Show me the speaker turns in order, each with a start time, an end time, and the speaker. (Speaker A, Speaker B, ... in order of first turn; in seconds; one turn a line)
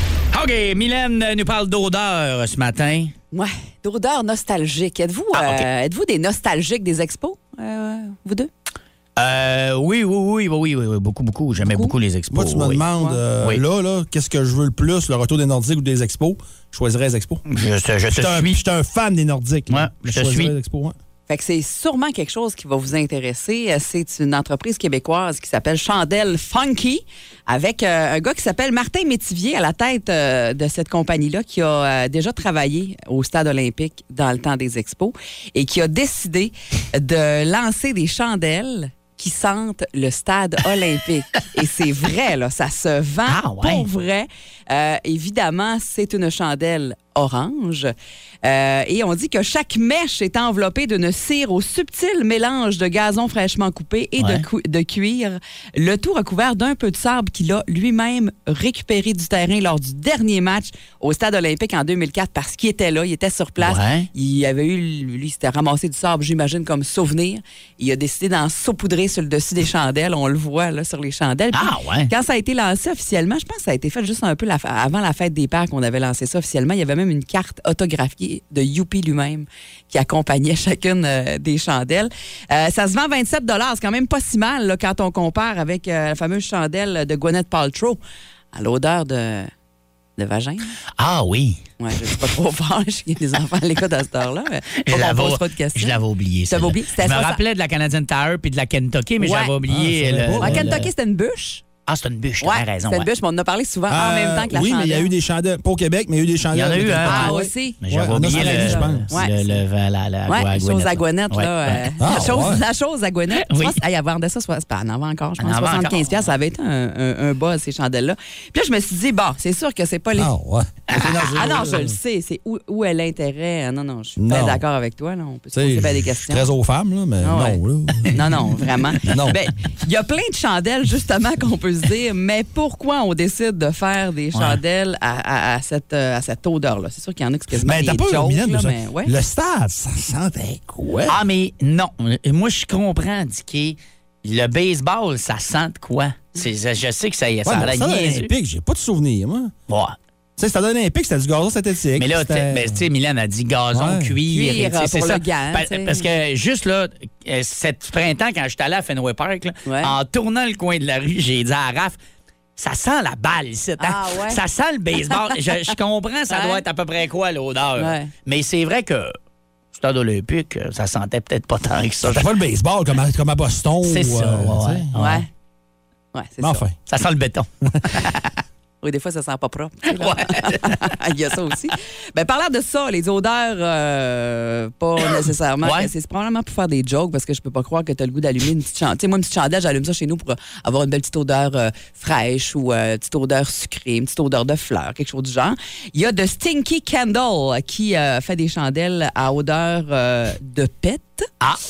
Speaker A: 0.3-3.1
Speaker B: 3.3-8.5
Speaker A: 5.3-5.7
Speaker A: 9.2-12.8
Speaker B: 11.6-11.9
Speaker C: 12.3-17.4
Speaker A: 17.5-18.6
Speaker C: 18.1-20.9
Speaker A: 19.7-20.5
Speaker B: 21.3-88.0
Speaker A: 43.3-43.9
Speaker A: 54.2-54.5
Speaker A: 63.6-64.1
Speaker A: 71.5-72.1
Speaker B: 88.5-89.5
Speaker B: 90.2-90.8
Speaker A: 91.0-91.6
Speaker B: 91.8-96.0
Speaker A: 94.8-100.9
Speaker B: 96.5-97.4
Speaker B: 99.2-99.5
Speaker C: 99.7-100.8
Speaker B: 100.4-101.6
Speaker A: 101.9-103.1
Speaker B: 102.4-105.1
Speaker C: 103.9-109.1
Speaker A: 106.5-111.9
Speaker B: 107.0-109.6
Speaker B: 110.3-120.3
Speaker C: 112.0-112.6
Speaker A: 113.3-113.8
Speaker A: 115.4-116.3
Speaker C: 120.2-122.0
Speaker A: 120.9-121.4
Speaker B: 121.0-126.5
Speaker C: 124.2-124.6
Speaker C: 125.5-128.2
Speaker B: 127.2-139.1
Speaker C: 129.0-129.4
Speaker A: 134.3-134.6
Speaker C: 137.5-141.2
Speaker A: 141.1-148.3
Speaker C: 147.4-149.5
Speaker A: 149.7-150.0
Speaker C: 150.4-152.8
Speaker A: 152.0-162.0
Speaker C: 153.7-154.2
Speaker B: 154.3-156.1
Speaker B: 159.7-159.9
Speaker A: 162.6-169.1
Speaker B: 163.8-164.4
Speaker B: 166.3-166.6
Speaker B: 167.8-168.1
Speaker A: 169.7-172.3
Speaker C: 172.0-174.9
Speaker A: 173.8-175.2
Speaker B: 174.9-175.3
Speaker B: 176.1-176.6
Speaker C: 176.4-176.8
Speaker A: 176.9-178.2
Speaker B: 178.8-201.3
Speaker A: 179.9-180.8
Speaker A: 185.6-185.9